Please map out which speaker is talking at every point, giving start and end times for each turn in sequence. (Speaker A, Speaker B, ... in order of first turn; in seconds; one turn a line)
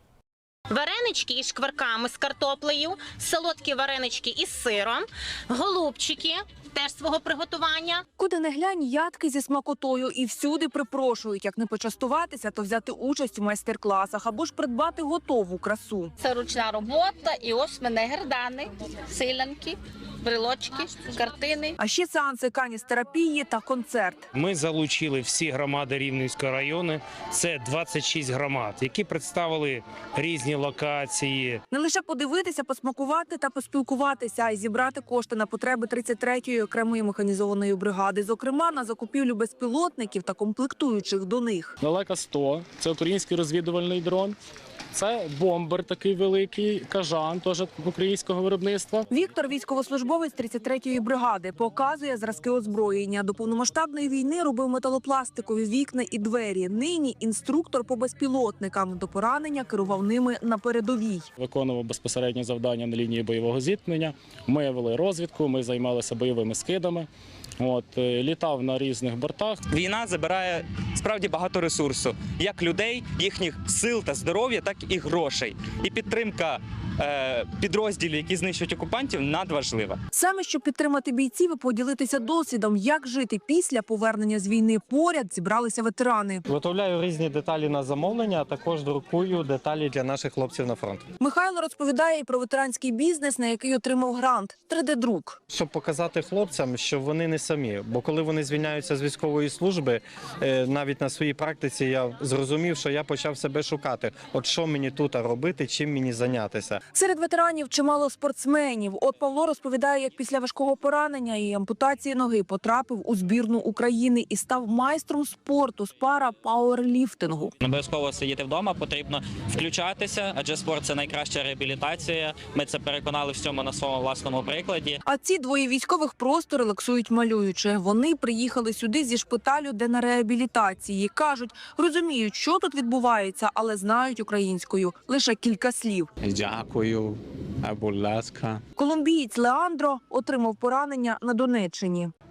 Speaker A: 0.7-8.0
Speaker B: 8.2-16.1
Speaker C: 16.2-21.7
Speaker B: 21.8-24.2
Speaker D: 24.3-31.6
Speaker B: 31.7-41.8
Speaker E: 41.8-44.4
Speaker E: 44.9-49.1
Speaker B: 49.1-61.3
Speaker E: 61.4-67.1
Speaker E: 67.6-69.6
Speaker F: 69.7-80.0
Speaker B: 80.1-86.4
Speaker G: 86.5-91.0
Speaker B: 91.2-95.4
Speaker G: 95.5-106.8
Speaker B: 106.9-117.5
Speaker H: 117.6-125.0
Speaker B: 125.0-136.1
Speaker I: 136.2-138.6
Speaker B: 138.8-142.1